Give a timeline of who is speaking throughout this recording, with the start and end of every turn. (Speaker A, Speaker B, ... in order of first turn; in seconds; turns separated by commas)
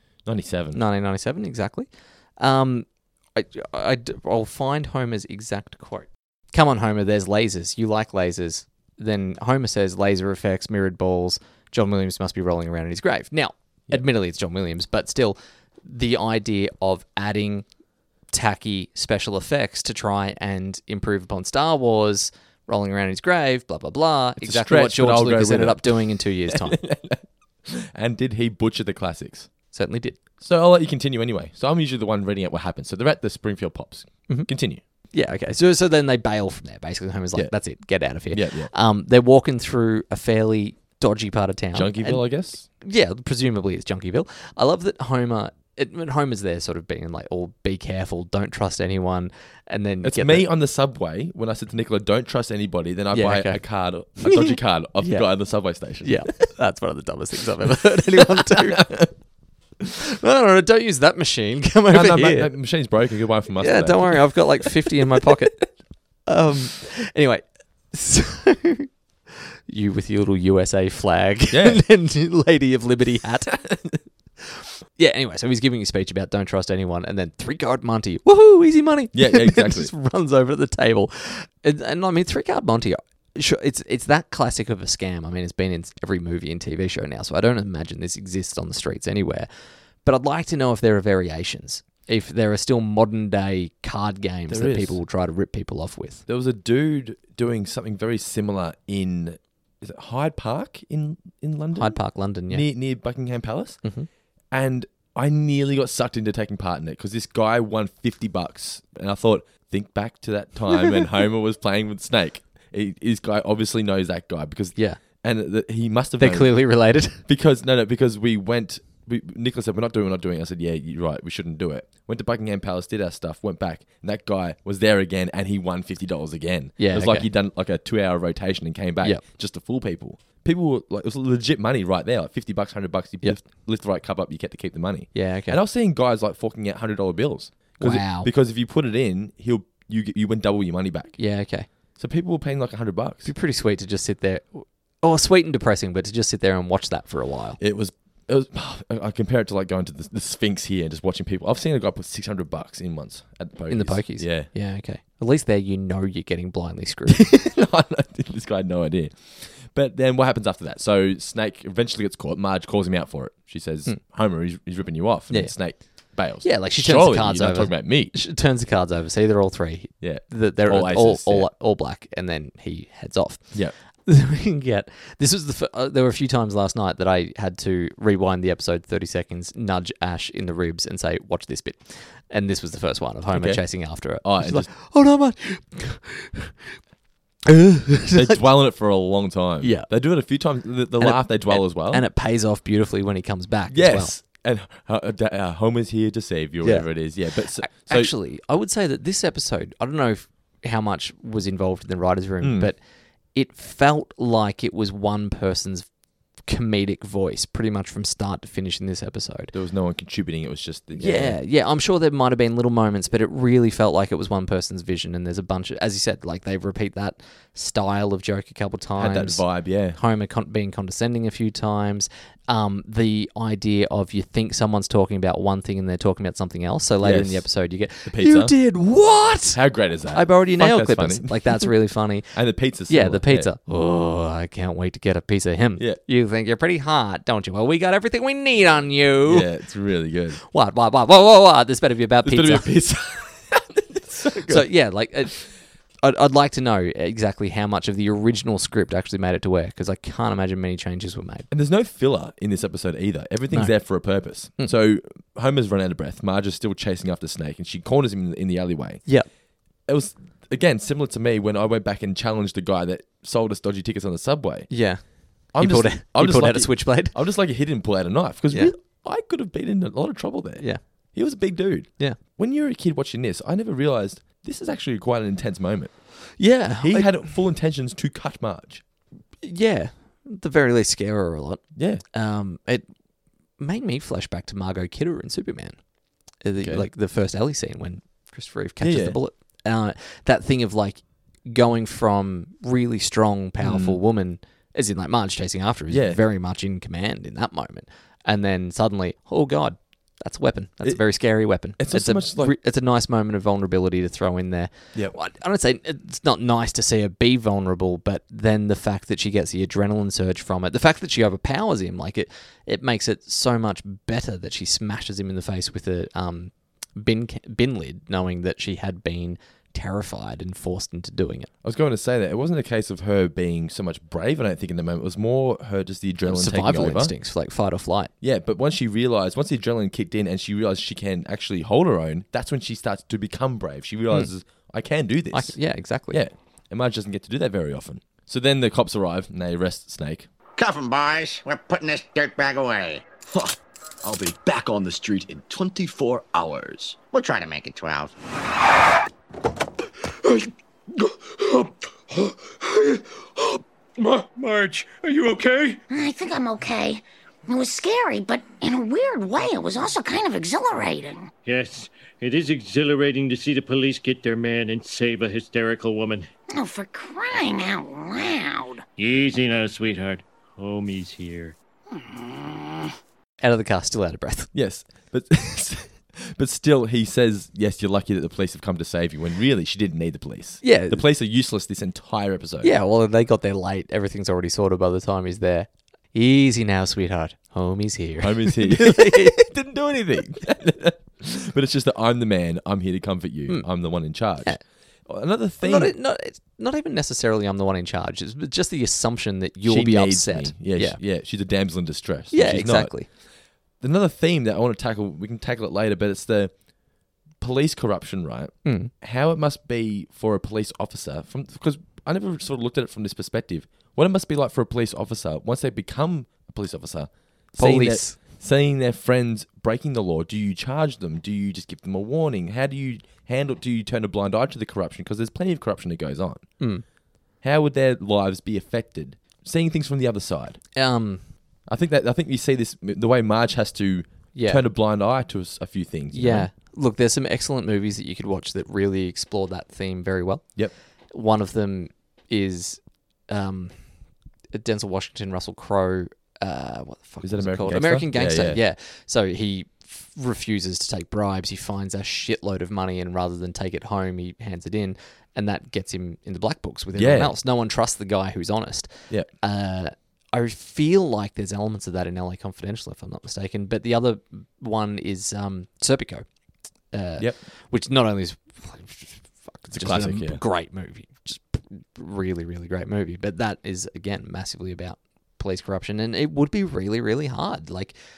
Speaker A: 0.2-0.8, Speaker B: 0.7-17.6, Speaker B: 18.3-26.8, Speaker A: 24.4-29.5, Speaker B: 29.7-30.2, Speaker A: 30.4-34.8, Speaker B: 35.1-50.5, Speaker A: 38.3-38.7, Speaker A: 41.7-42.7, Speaker A: 50.0-56.4, Speaker B: 53.1-53.6, Speaker B: 54.1-59.1, Speaker A: 57.8-59.1, Speaker B: 59.9-62.5, Speaker A: 61.9-65.3, Speaker B: 63.6-65.7, Speaker B: 66.2-68.9, Speaker B: 69.7-73.7, Speaker A: 71.5-71.8, Speaker A: 73.6-74.0, Speaker B: 74.4-89.5, Speaker A: 79.1-79.9, Speaker B: 90.0-96.2, Speaker A: 94.5-95.0, Speaker A: 96.3-103.8, Speaker B: 101.7-102.6, Speaker B: 103.8-104.1, Speaker A: 104.5-141.2, Speaker B: 114.8-115.0, Speaker B: 116.2-117.2, Speaker B: 126.8-127.3, Speaker B: 135.1-135.6, Speaker B: 137.8-138.3, Speaker B: 141.2-141.7, Speaker A: 141.9-143.3, Speaker B: 143.2-147.6, Speaker A: 147.6-154.5, Speaker B: 153.7-157.4, Speaker A: 157.1-168.1, Speaker B: 165.3-186.5, Speaker A: 170.0-171.5, Speaker A: 183.3-184.7, Speaker B: 187.5-188.4, Speaker A: 188.1-192.1, Speaker B: 189.6-189.9, Speaker B: 191.0-194.1, Speaker A: 193.7-198.1, Speaker B: 196.6-205.9, Speaker A: 202.4-202.7, Speaker B: 206.4-209.5, Speaker A: 209.5-211.4, Speaker B: 210.9-239.5, Speaker A: 219.0-220.0, Speaker A: 227.0-227.5, Speaker A: 228.0-228.5, Speaker A: 229.5-231.7, Speaker A: 232.3-233.5, Speaker A: 239.3-240.4, Speaker B: 240.4-242.7, Speaker A: 242.2-244.7, Speaker B: 244.4-245.5, Speaker B: 246.0-251.5, Speaker A: 251.5-259.0, Speaker B: 253.5-253.8, Speaker A: 259.9-264.7, Speaker B: 264.7-267.1, Speaker A: 265.5-276.2, Speaker B: 276.4-277.1, Speaker A: 276.8-278.8, Speaker B: 279.4-282.9, Speaker A: 281.7-282.0, Speaker B: 283.6-285.8, Speaker B: 286.3-321.5, Speaker A: 286.6-286.9, Speaker A: 288.8-289.2, Speaker A: 293.6-294.0, Speaker A: 295.9-296.2, Speaker A: 301.8-302.5, Speaker A: 321.6-327.1, Speaker B: 326.2-328.1, Speaker A: 328.2-335.6, Speaker B: 335.3-336.2, Speaker A: 336.1-340.3, Speaker C: 340.6-343.1, Speaker D: 343.2-347.0, Speaker C: 347.1-348.1, Speaker E: 351.3-353.5, Speaker E: 354.0-355.8, Speaker F: 355.9-361.3, Speaker E: 361.4-366.3, Speaker F: 366.5-368.8, Speaker E: 369.0-371.6, Speaker F: 371.9-372.9, Speaker B: 373.4-374.5, Speaker A: 374.5-382.7, Speaker B: 380.6-381.0, Speaker B: 382.6-389.4, Speaker A: 388.2-394.6, Speaker A: 395.1-395.9, Speaker B: 395.6-401.0, Speaker A: 399.6-403.1, Speaker B: 402.3-403.1, Speaker A: 403.8-406.5, Speaker A: 407.4-426.5, Speaker B: 408.6-408.9, Speaker B: 417.6-418.2, Speaker B: 426.6-426.8, Speaker A: 427.4-430.6, Speaker B: 430.7-431.2, Speaker A: 431.7-436.5, Speaker B: 434.3-434.6, Speaker B: 436.1-443.8, Speaker B: 444.5-466.2, Speaker A: 447.2-448.6, Speaker A: 456.9-457.3, Speaker B: 466.9-477.9, Speaker A: 469.7-470.4